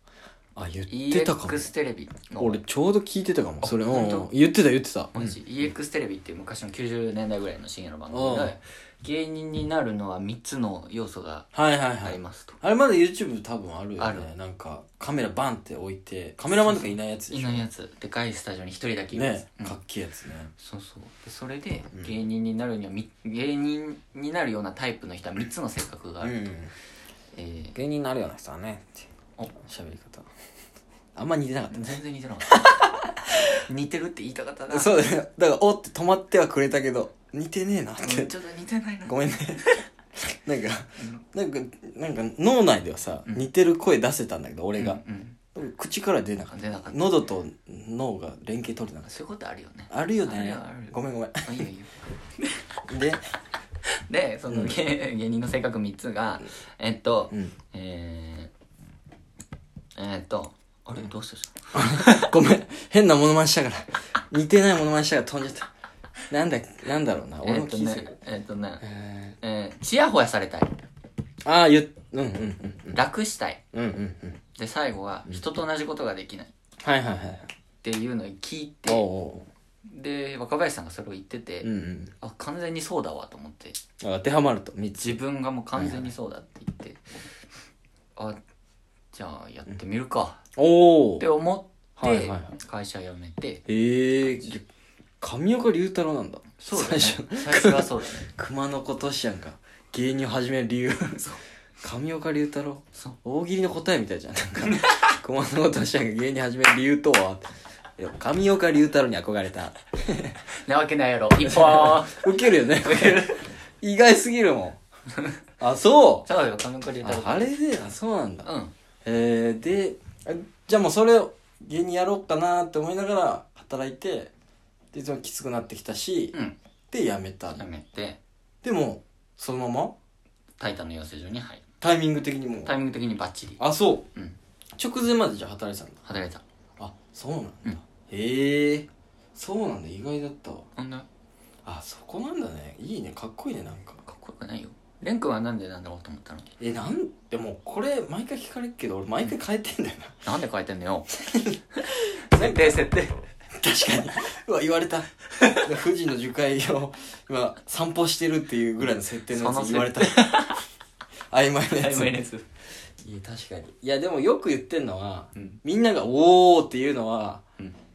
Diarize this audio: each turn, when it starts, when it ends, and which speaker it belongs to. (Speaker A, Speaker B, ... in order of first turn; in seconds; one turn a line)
Speaker A: 0.6-1.7
Speaker B: 0.9-2.6
Speaker A: 2.3-5.5
Speaker B: 3.6-4.3
Speaker B: 5.1-11.5
Speaker A: 8.1-8.6
Speaker A: 11.5-17.6
Speaker B: 12.0-12.6
Speaker B: 14.0-14.3
Speaker B: 16.6-19.8
Speaker A: 19.1-20.5
Speaker B: 20.6-26.4
Speaker A: 26.2-26.7
Speaker B: 27.3-27.8
Speaker A: 27.7-30.3
Speaker A: 31.2-32.0
Speaker B: 31.7-32.9
Speaker B: 33.6-35.1
Speaker A: 34.7-38.3
Speaker B: 38.0-39.9
Speaker A: 39.0-45.0
Speaker B: 44.8-45.4
Speaker A: 45.5-49.2
Speaker B: 46.5-47.0
Speaker B: 49.1-52.6
Speaker A: 49.9-51.6
Speaker A: 52.9-53.2
Speaker B: 54.0-58.5
Speaker A: 54.5-54.8
Speaker B: 60.0-62.3
Speaker A: 61.7-65.7
Speaker A: 66.3-68.1
Speaker B: 67.4-68.9
Speaker A: 68.8-69.4
Speaker B: 69.4-70.8
Speaker A: 71.5-73.0
Speaker B: 72.9-73.6
Speaker A: 73.7-74.4
Speaker B: 74.5-76.5
Speaker A: 76.8-77.5
Speaker B: 77.8-79.1
Speaker A: 78.9-79.5
Speaker B: 79.8-81.7
Speaker A: 81.6-82.1
Speaker B: 82.2-83.8
Speaker A: 84.0-85.2
Speaker B: 85.0-87.2
Speaker A: 85.8-86.1
Speaker B: 89.1-90.4
Speaker A: 90.6-91.3
Speaker B: 91.2-93.6
Speaker A: 92.0-92.5
Speaker A: 93.7-94.7
Speaker B: 94.2-94.5
Speaker A: 95.2-101.2
Speaker B: 96.6-98.3
Speaker B: 101.1-101.4
Speaker A: 101.8-107.4
Speaker B: 104.6-105.1
Speaker A: 108.0-110.4
Speaker B: 110.5-113.5
Speaker A: 111.4-114.8
Speaker B: 115.1-115.4
Speaker A: 115.6-116.3
Speaker B: 116.3-117.6
Speaker A: 117.0-118.5
Speaker B: 118.4-118.7
Speaker A: 119.0-124.3
Speaker A: 124.9-126.4
Speaker A: 126.9-127.7
Speaker B: 127.5-128.2
Speaker A: 128.6-129.9
Speaker B: 130.6-131.7
Speaker A: 131.8-132.8
Speaker B: 132.7-133.6
Speaker A: 133.6-134.1
Speaker A: 134.8-136.0
Speaker B: 136.1-136.4
Speaker A: 136.8-140.7
Speaker B: 140.8-141.1
Speaker A: 141.7-144.0
Speaker B: 144.1-146.5
Speaker A: 146.6-150.3
Speaker B: 150.2-151.1
Speaker A: 151.2-152.8
Speaker B: 151.8-153.2
Speaker A: 153.6-160.6
Speaker B: 159.3-160.6
Speaker A: 161.3-162.2
Speaker B: 161.7-162.5
Speaker A: 163.0-167.4
Speaker B: 165.3-165.6